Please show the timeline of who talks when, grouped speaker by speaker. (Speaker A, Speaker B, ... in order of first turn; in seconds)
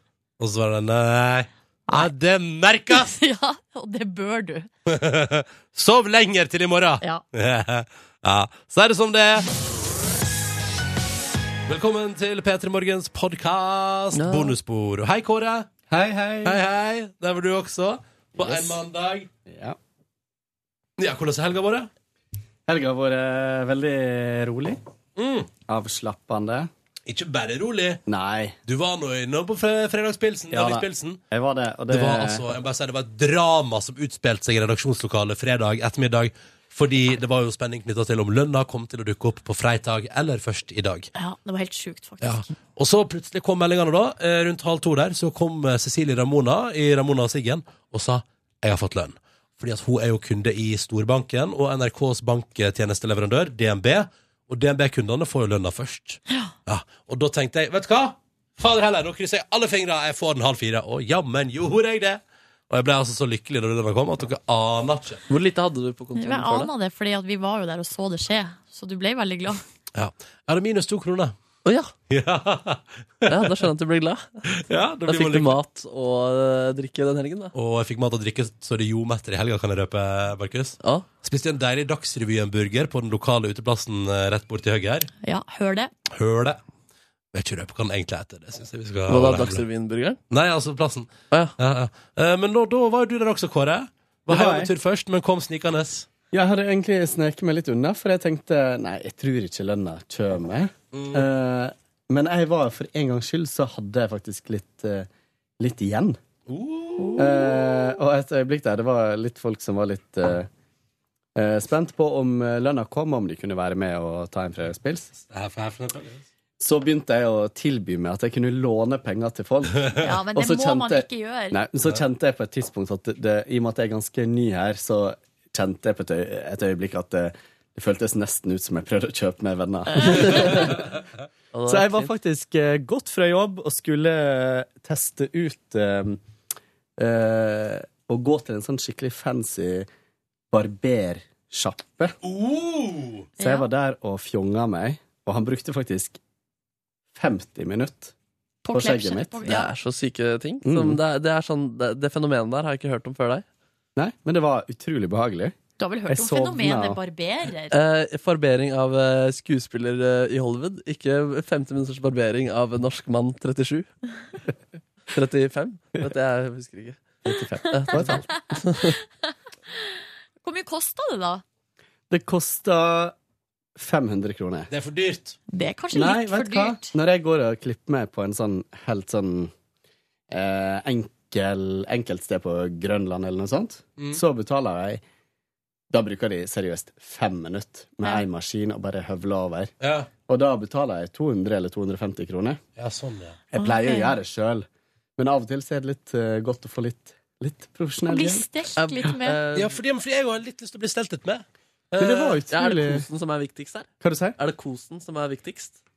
Speaker A: 0.4-3.1, 4.9-9.5, 11.7-15.7, 16.4-19.3, 21.0-21.9, 25.1-25.5, 27.1-28.0, 28.6-31.2, 31.9-41.1, 42.2-65.2, 69.9-71.3, 72.1-73.5, 74.5-75.6, 77.5-85.1, 86.1-86.6, 87.3-89.6, 90.3-96.1, 100.9-101.3, 106.5-107.5, 115.1-116.2, 142.2-143.3, 174.7-175.4, 189.8-190.1, 192.8-193.4, 199.5-202.4
Speaker B: 2.9-4.7, 41.1-42.5, 56.3-56.5, 66.2-69.6, 85.2-85.9, 120.0-121.6, 130.0-130.3, 143.4-143.7, 148.6-149.7, 155.8-157.7, 169.7-171.4, 175.5-176.9, 193.6-194.1, 198.1-199.4
Speaker C: 14.1-14.5, 65.3-66.7, 71.7-71.9, 73.3-74.5, 75.1-77.5, 80.8-81.1, 89.1-90.2, 130.1-130.8, 131.5-132.1, 149.4-153.4, 157.7-163.9, 165.1-167.2, 167.7-168.9, 198.8-199.7, 202.5-205.8
Speaker D: 15.9-16.6, 18.4-18.8, 19.4-19.8, 22.7-24.8, 25.6-26.7, 28.1-28.6, 30.5-32.5, 94.3-94.7, 96.3-105.1, 105.6-106.2, 107.2-110.5, 111.3-115.1, 116.6-130.7, 131.7-136.2, 137.0-139.9, 140.5-142.2, 143.4-146.2, 147.1-148.1, 148.7-149.6, 150.6-151.0, 153.9-155.6, 156.1-157.0, 167.2-168.3, 172.1-173.1, 173.8-174.7, 175.9-179.5, 180.3-185.0, 185.9-189.7, 190.2-192.6, 193.5-198.5, 202.0-203.1, 204.0-204.4